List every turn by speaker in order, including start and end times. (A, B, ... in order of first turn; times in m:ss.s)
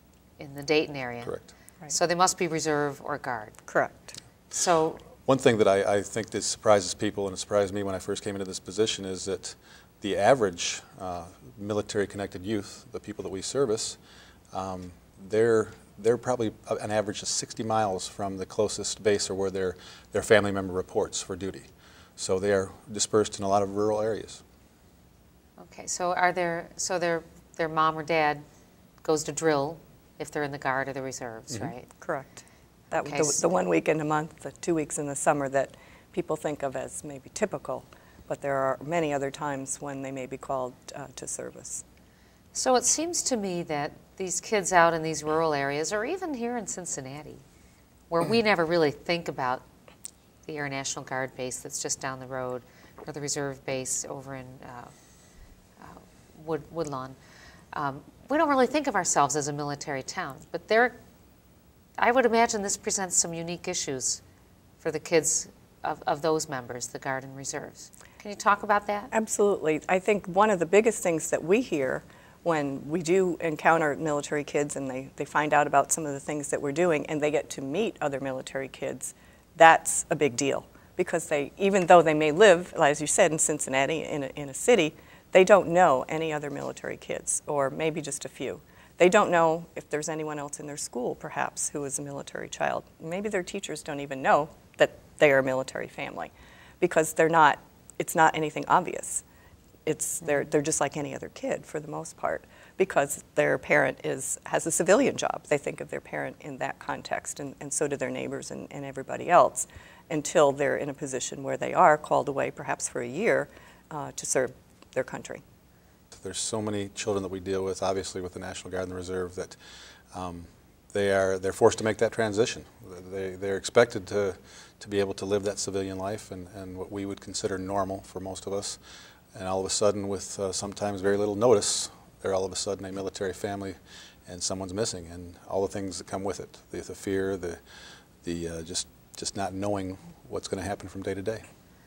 0:00.4-0:01.4 A
0:01.9-0:03.6 A
0:03.7-0:04.2 B
0:04.5-0:05.0 A
0:05.2-0:14.0 C
0:14.5-0:24.4 C
0:25.6-0:28.4 A
0:29.0-0:31.9 A
0:32.0-0:32.4 B
0:32.9-0:33.4 A
0:32.9-0:41.8 B
0:42.6-0:47.4 A
0:48.1-0:49.6 A
0:50.5-0:54.9 A
0:55.8-0:57.2 A
0:57.7-1:01.0 A
1:02.0-1:04.2 A
1:04.8-1:09.1 A
1:09.1-1:39.2 B
1:39.9-1:55.4 B
1:56.1-1:59.6 C
2:00.1-2:08.8 C
2:09.3-2:17.6 C
2:18.2-2:21.4 C